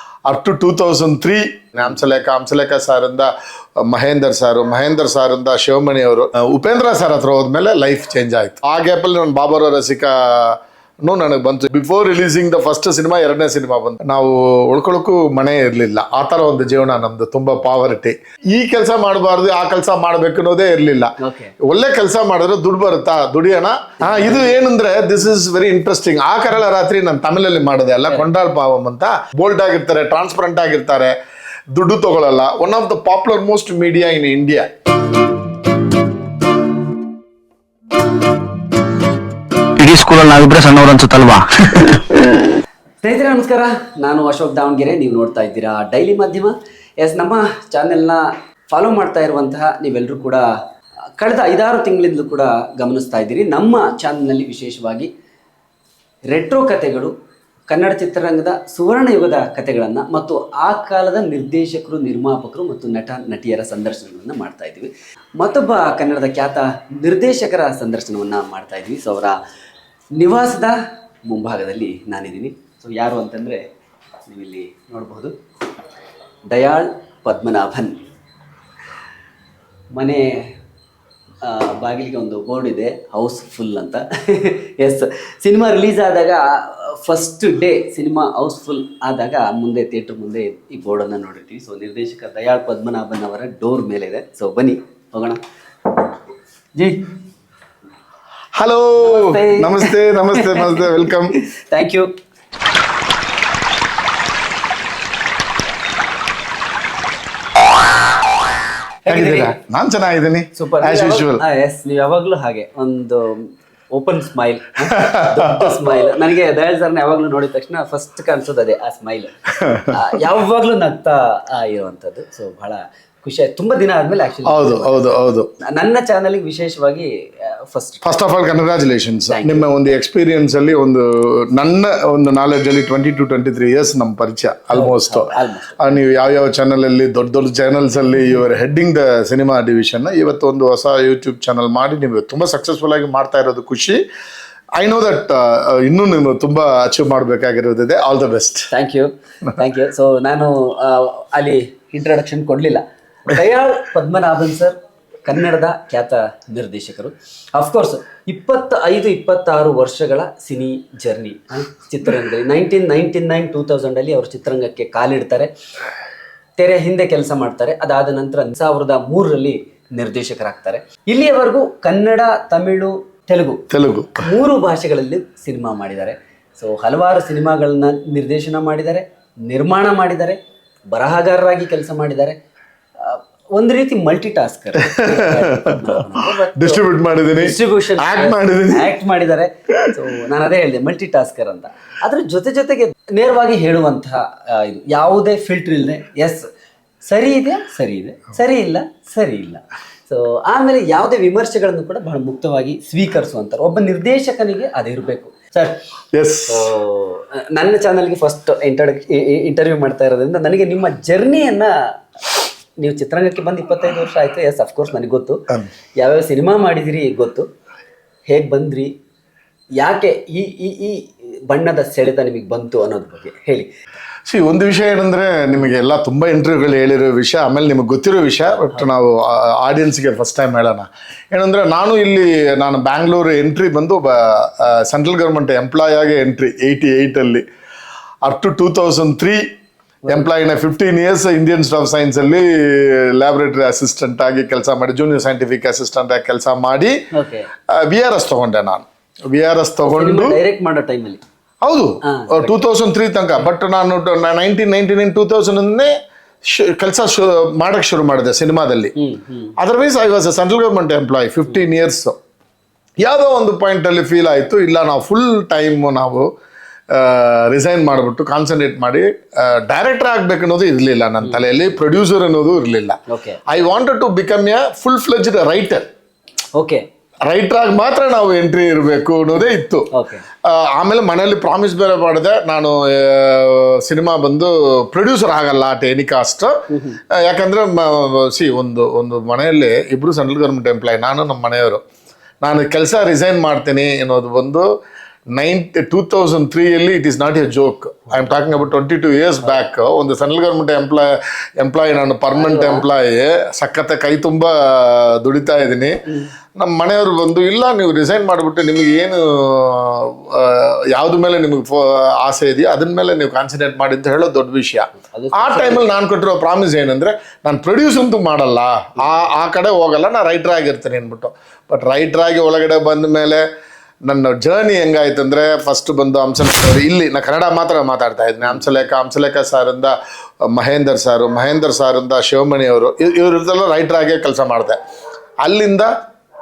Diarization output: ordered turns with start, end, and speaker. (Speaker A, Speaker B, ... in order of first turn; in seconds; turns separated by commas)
Speaker A: 0.2-31.1, Speaker B: 21.2-21.5, Speaker B: 24.1-24.4, Speaker A: 31.7-34.7, Speaker C: 39.8-42.1, Speaker B: 43.0-50.5, Speaker B: 51.2-55.1, Speaker B: 56.2-57.1, Speaker B: 57.7-69.4, Speaker B: 70.2-73.6, Speaker B: 74.3-75.4, Speaker B: 76.5-78.0, Speaker B: 79.9-80.5, Speaker B: 81.4-95.4, Speaker B: 96.7-97.1, Speaker A: 98.5-101.3, Speaker B: 99.0-102.1, Speaker B: 109.0-109.5, Speaker A: 109.1-111.4, Speaker B: 110.5-119.3, Speaker A: 114.9-116.1, Speaker A: 119.6-119.9, Speaker B: 119.9-125.1, Speaker A: 124.4-125.5, Speaker B: 125.6-128.2, Speaker A: 128.0-144.0, Speaker B: 129.3-129.7, Speaker B: 134.7-135.9, Speaker A: 144.8-148.7, Speaker B: 148.7-165.5, Speaker B: 166.6-173.6, Speaker A: 173.7-174.2, Speaker B: 174.2-180.4, Speaker B: 180.9-182.4, Speaker B: 183.0-186.8, Speaker A: 184.8-188.9, Speaker B: 187.4-196.4, Speaker B: 197.0-205.8, Speaker A: 206.1-206.7, Speaker B: 206.5-215.4, Speaker B: 216.0-217.5, Speaker B: 218.3-218.9, Speaker B: 219.8-223.7, Speaker A: 224.3-237.4, Speaker A: 238.2-239.4, Speaker A: 240.1-247.0, Speaker B: 247.1-247.5, Speaker A: 247.7-250.4, Speaker B: 249.9-251.2, Speaker A: 251.6-255.9, Speaker B: 252.0-252.6, Speaker A: 256.4-258.9, Speaker B: 259.0-259.5, Speaker A: 259.6-262.1, Speaker A: 263.0-266.3, Speaker A: 266.9-275.8, Speaker B: 273.1-273.4, Speaker B: 276.6-276.8, Speaker A: 277.3-279.9, Speaker B: 279.9-280.2, Speaker A: 280.4-286.5, Speaker B: 286.7-287.0, Speaker A: 287.1-291.8, Speaker A: 292.4-294.6, Speaker A: 295.3-306.0, Speaker B: 302.3-302.9, Speaker A: 306.6-323.4, Speaker B: 315.0-315.9, Speaker A: 324.1-329.9, Speaker A: 330.5-334.8, Speaker A: 335.4-335.9